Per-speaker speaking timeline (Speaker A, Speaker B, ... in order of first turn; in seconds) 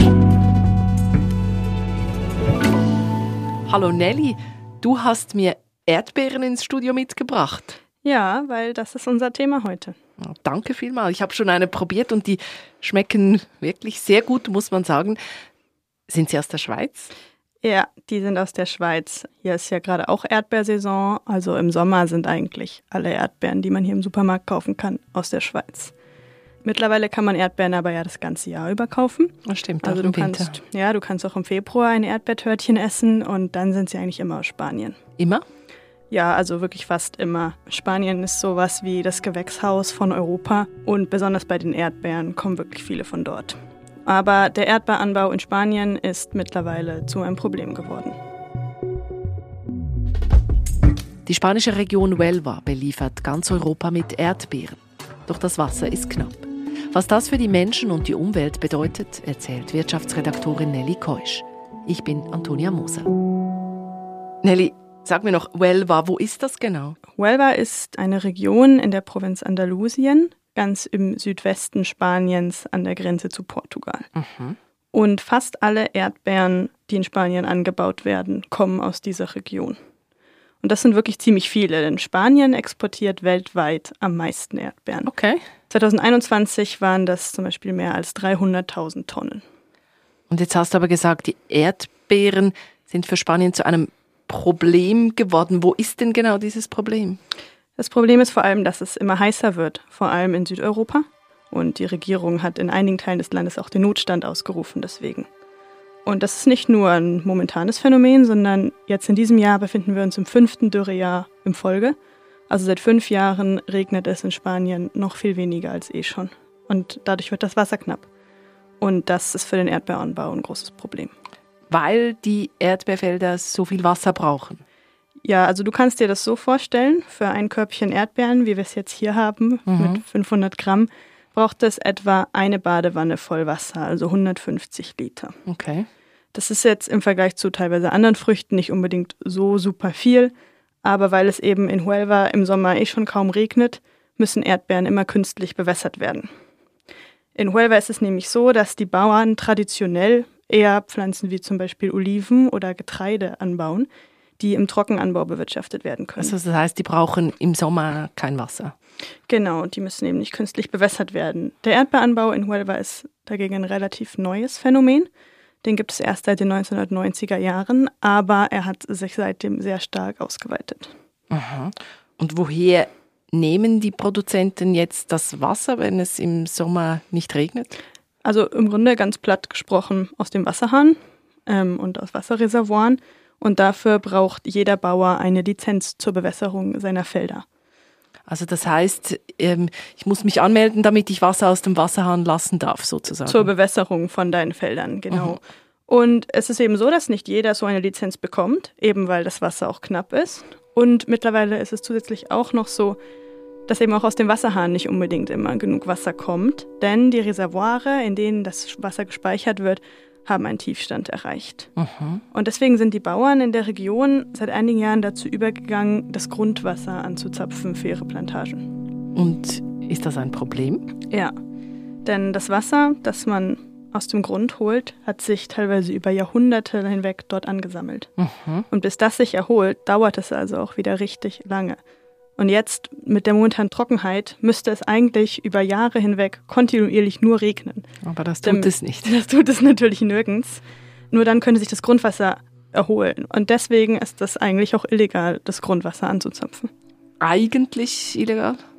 Speaker A: 3.6-7.8, 10.2-15.2, 16.1-17.1, 29.4-30.6, 35.2-35.4, 51.2-63.1, 64.4-67.0, 74.2-74.6, 85.0-85.4, 90.3-97.2, 121.7-124.6, 129.7-130.0, 135.4-135.9, 156.2-158.7, 171.3-177.7, 188.3-193.5, 195.1-195.4, 211.8-212.2, 219.1-220.9, 228.2-228.6, 238.0-239.2, 247.2-248.6
Speaker B: 8.0-10.0, 17.6-25.9, 26.6-35.0, 36.1-48.2, 67.1-74.1, 74.9-79.8, 80.6-85.1, 85.7-89.4, 97.8-105.3, 106.0-112.0, 112.5-118.1, 118.8-121.1, 125.2-135.3, 136.3-146.3, 147.3-153.9, 154.4-156.3, 159.3-165.1, 165.6-170.9, 178.2-187.4, 193.3-203.0, 203.7-211.7, 212.3-218.7, 221.0-221.3, 222.0-228.1, 228.7-231.8, 232.4-237.8, 238.4-246.7